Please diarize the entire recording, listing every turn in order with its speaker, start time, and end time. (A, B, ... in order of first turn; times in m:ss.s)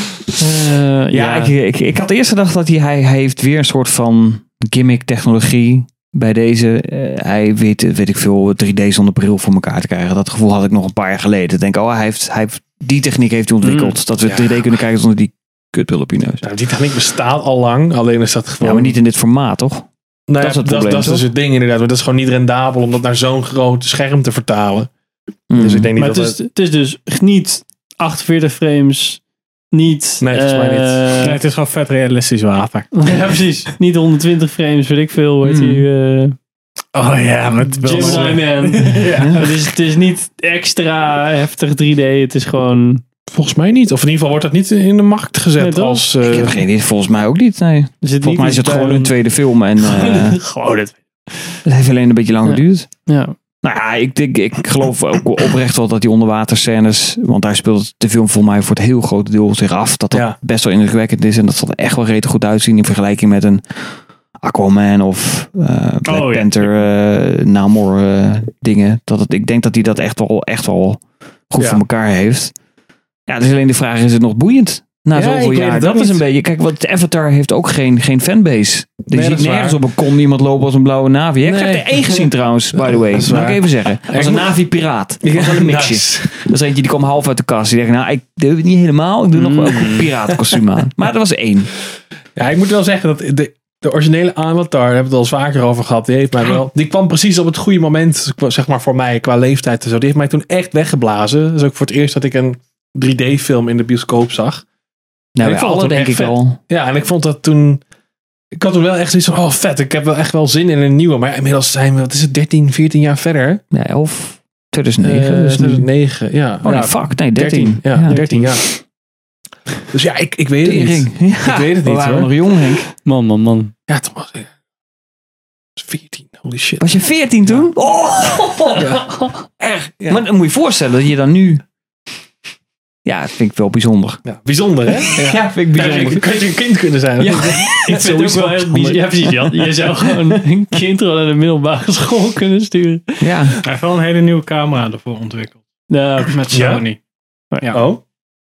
0:00.4-0:01.5 A
0:01.1-0:16.4 B
0:13.6-0:14.0 A
0:14.2-0:14.7 C
0:16.4-0:19.0 C
0:18.6-0:19.9 B
0:20.3-0:24.9 C
0:20.4-0:21.3 B
0:25.5-0:25.9 B
0:25.6-0:26.4 C
0:26.0-0:29.2 A
0:29.7-0:31.4 A
0:30.2-0:31.1 C
0:31.2-0:33.1 D
0:32.9-0:36.4 A
0:35.4-0:35.8 B
0:37.0-0:39.6 D
0:37.8-0:43.0 A
0:39.1-0:39.4 B
0:43.3-0:46.6 C
0:45.6-0:46.1 A
0:46.2-0:50.4 B
0:48.0-0:49.2 A
0:49.8-0:51.6 A
0:51.6-0:52.9 B
0:52.5-0:53.4 A
0:53.6-1:12.5 B
1:06.1-1:06.7 A
1:11.6-1:11.8 C
1:13.3-1:31.7 B
1:15.2-1:16.2 C
1:19.1-1:19.8 C
1:21.4-1:24.5 C
1:25.2-1:26.4 C
1:29.4-1:30.1 A
1:32.4-1:44.6 C
1:45.4-1:46.6 B
1:45.4-1:47.8 C
1:48.6-1:53.6 C
1:53.7-1:55.9 B
1:55.0-1:58.7 C
1:56.6-1:58.2 B
1:58.1-1:58.6 A
1:59.9-2:02.3 C
2:00.6-2:02.9 B
2:03.0-2:03.7 A
2:03.9-2:04.5 C
2:05.8-2:06.9 C
2:06.8-2:08.9 B
2:08.8-2:10.2 C
2:10.1-2:11.6 B
2:13.0-2:14.2 B
2:14.2-2:17.8 C
2:15.1-2:16.2 B
2:15.8-2:16.2 A
2:17.2-2:23.2 A
2:17.5-2:20.4 B
2:23.2-2:23.6 B
2:23.6-2:25.6 D
2:25.9-2:26.4 A
2:26.3-2:27.0 D
2:26.5-2:26.8 C
2:27.7-2:28.0 C